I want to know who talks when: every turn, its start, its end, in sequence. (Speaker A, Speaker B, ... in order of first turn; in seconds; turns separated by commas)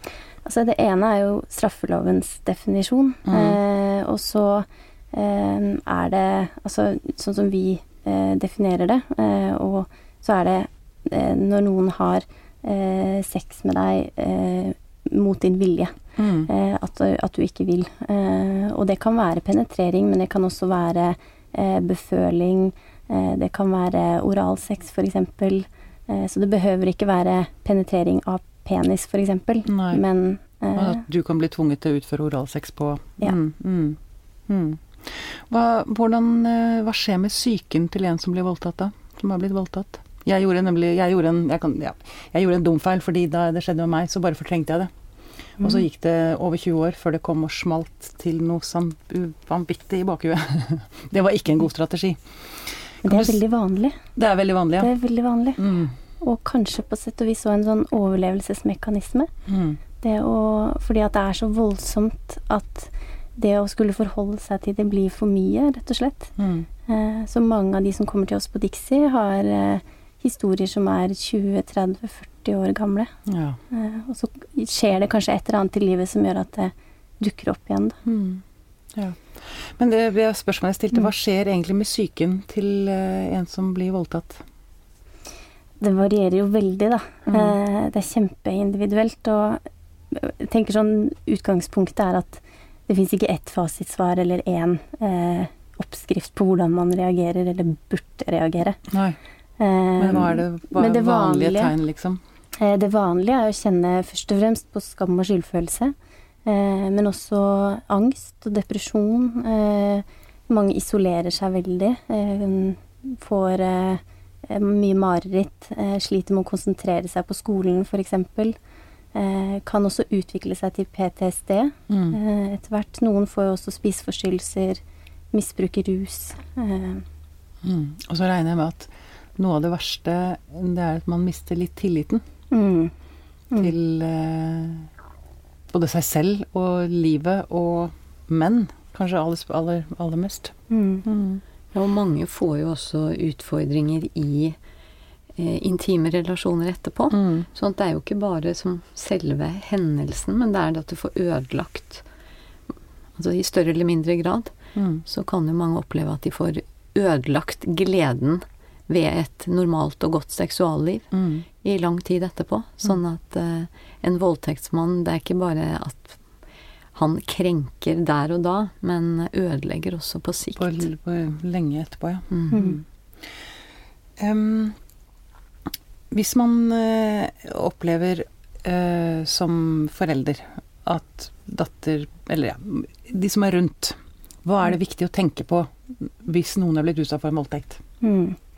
Speaker A: 0.5-31.0, Speaker B: 3.3-3.6, Speaker B: 16.2-16.5, Speaker B: 29.7-30.0, Speaker B: 30.8-44.9, Speaker A: 45.6-45.9, Speaker B: 45.6-53.4, Speaker A: 53.0-54.0, Speaker B: 54.2-54.9, Speaker A: 54.8-55.6, Speaker B: 55.6-56.0, Speaker A: 56.2-59.3, Speaker B: 59.5-59.8, Speaker A: 60.0-66.3, Speaker B: 66.4-66.7, Speaker A: 66.9-73.1, Speaker B: 73.3-73.6, Speaker A: 73.7-78.0, Speaker B: 78.0-78.4, Speaker B: 79.0-84.4, Speaker A: 85.8-89.6, Speaker B: 87.3-87.5, Speaker A: 90.1-98.8, Speaker B: 98.9-99.2, Speaker A: 99.6-101.7, Speaker B: 100.0-102.2, Speaker A: 102.6-106.0, Speaker A: 106.5-118.6, Speaker A: 119.1-124.8, Speaker B: 121.9-122.2, Speaker A: 125.3-127.0, Speaker B: 127.6-132.2, Speaker A: 132.5-132.9, Speaker B: 133.6-134.9, Speaker B: 135.7-141.4, Speaker A: 140.7-141.1, Speaker C: 141.7-144.6, Speaker C: 145.4-152.0, Speaker B: 147.1-147.5, Speaker C: 153.2-154.5, Speaker B: 154.8-155.0, Speaker C: 155.1-161.1, Speaker B: 161.1-161.4, Speaker C: 161.6-166.2, Speaker C: 166.9-170.8, Speaker B: 170.6-172.8, Speaker A: 172.5-172.8, Speaker B: 174.2-174.8, Speaker B: 176.1-187.8, Speaker A: 188.0-188.4